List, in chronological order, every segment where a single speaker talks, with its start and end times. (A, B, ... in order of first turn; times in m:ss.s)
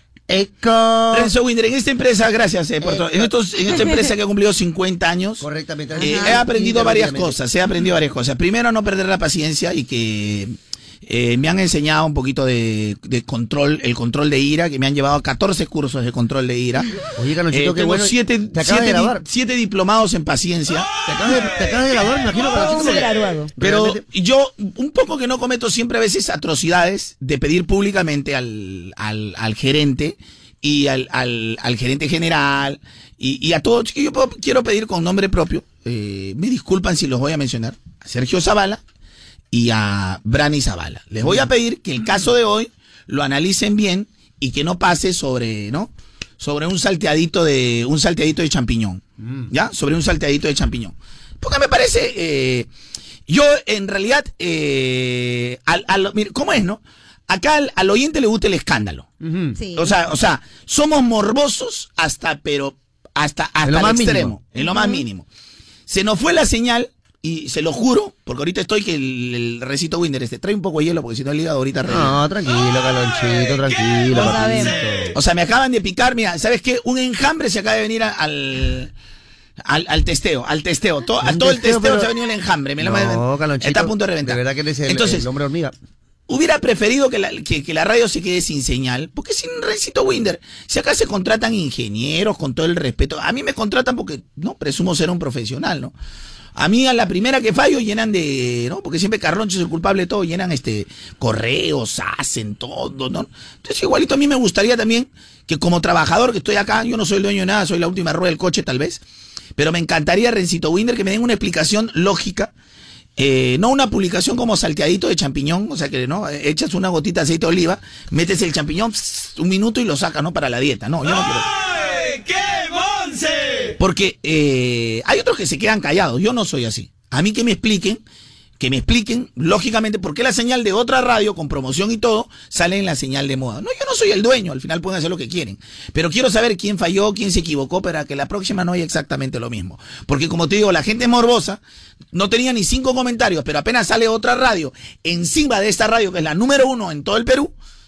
0:00.3-0:01.3 A
0:01.1-0:05.4 B
0:02.8-0:03.1 C
0:05.4-0:07.4 A
0:06.0-0:06.4 C
0:06.0-0:16.9 B
0:17.1-0:19.2 A
0:17.5-0:21.1 B
0:21.1-0:24.0 A
0:22.5-0:23.5 C
0:23.6-0:38.8 B
0:39.5-0:52.7 B
0:41.2-0:41.5 A
0:49.2-0:49.5 A
0:53.3-0:59.1 B
0:59.2-0:59.6 A
0:59.6-0:59.9 C
0:59.8-1:05.2 B
1:03.6-1:04.4 A
1:04.5-1:05.0 C
1:05.9-1:12.2 B
1:11.8-1:15.1 A
1:14.1-1:14.7 C
1:15.1-1:18.9 B
1:19.7-1:25.2 B
1:21.2-1:22.1 A
1:22.8-1:25.7 A
1:26.3-1:35.9 B
1:36.6-1:49.0 B
1:49.6-1:52.5 B
1:53.2-2:01.5 B
2:03.8-2:08.0 B
2:08.6-2:21.6 B
2:22.1-2:27.5 B